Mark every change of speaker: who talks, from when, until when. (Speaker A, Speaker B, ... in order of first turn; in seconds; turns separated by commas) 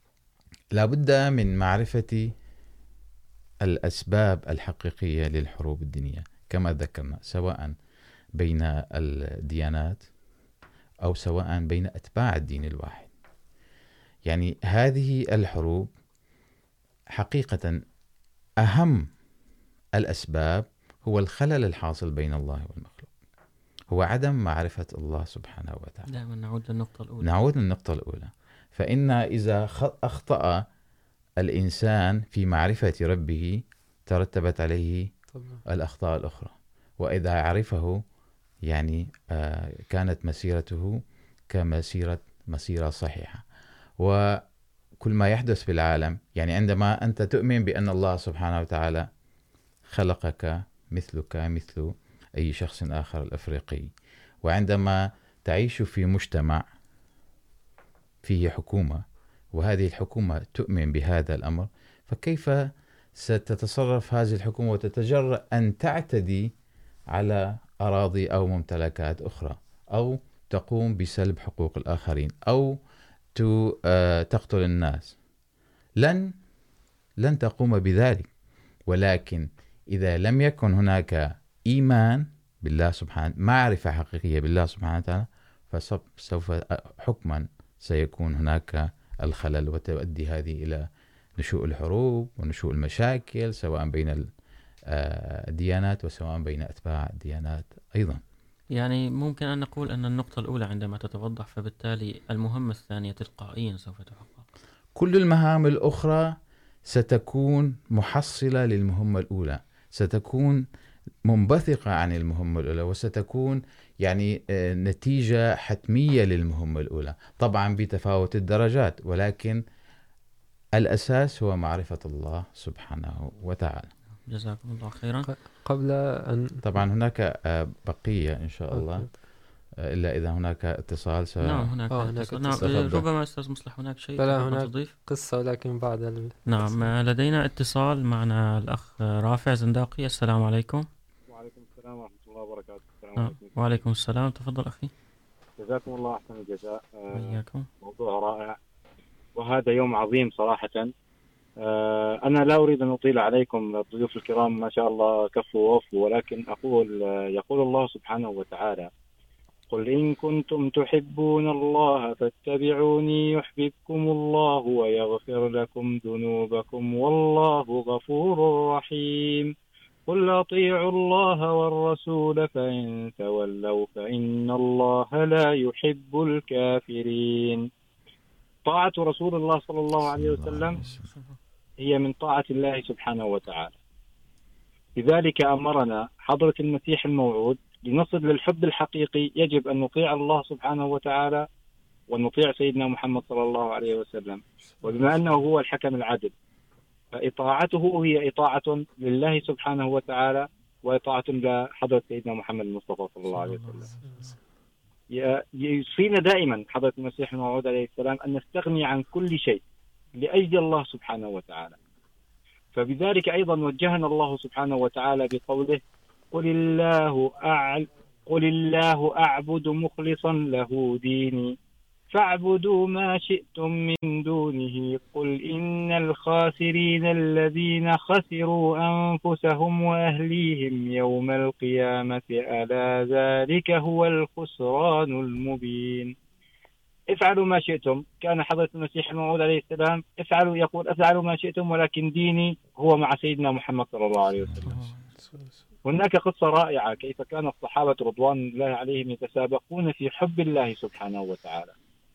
Speaker A: 0.8-2.3, Speaker A: 3.6-7.8, Speaker A: 8.4-10.1, Speaker A: 11.0-13.1, Speaker A: 14.3-15.9, Speaker A: 17.2-17.8, Speaker A: 18.6-19.1, Speaker A: 20.0-23.1, Speaker A: 23.9-26.1, Speaker B: 26.1-27.3, Speaker A: 27.2-30.6, Speaker A: 31.4-35.1, Speaker C: 35.4-35.6, Speaker A: 35.7-38.0, Speaker A: 38.7-43.4, Speaker A: 45.0-49.1, Speaker A: 49.9-53.9, Speaker A: 54.5-56.6, Speaker A: 58.2-59.0, Speaker A: 59.5-66.5, Speaker A: 67.1-72.8, Speaker A: 73.3-75.2, Speaker A: 76.0-76.3, Speaker A: 77.2-78.3, Speaker A: 78.9-90.9, Speaker A: 91.4-94.3, Speaker A: 94.9-98.2, Speaker B: 98.7-104.5, Speaker A: 105.0-106.4, Speaker A: 106.9-110.6, Speaker A: 111.3-119.6, Speaker A: 120.8-123.9, Speaker B: 124.3-125.3, Speaker C: 125.3-126.6, Speaker A: 126.6-129.1, Speaker C: 128.7-129.1, Speaker A: 129.8-131.7, Speaker B: 131.4-134.9, Speaker C: 131.9-132.7, Speaker A: 132.6-133.1, Speaker C: 134.2-136.8, Speaker B: 136.5-140.9, Speaker D: 141.3-143.8, Speaker B: 143.2-144.9, Speaker D: 145.6-148.6, Speaker B: 147.1-147.7, Speaker D: 149.3-150.9, Speaker D: 151.6-158.9, Speaker D: 159.7-169.5, Speaker D: 170.1-177.7, Speaker D: 178.7-180.8, Speaker A: 180.0-181.1, Speaker B: 180.8-181.4, Speaker D: 181.8-183.8, Speaker D: 185.0-191.4, Speaker D: 192.1-196.3, Speaker B: 194.9-195.4, Speaker D: 197.1-203.9, Speaker B: 203.3-204.4, Speaker D: 205.1-209.6, Speaker D: 210.2-211.8, Speaker D: 212.7-221.5, Speaker D: 222.1-236.1, Speaker D: 237.1-244.5, Speaker A: 244.4-244.8, Speaker B: 244.6-245.1, Speaker D: 245.8-251.7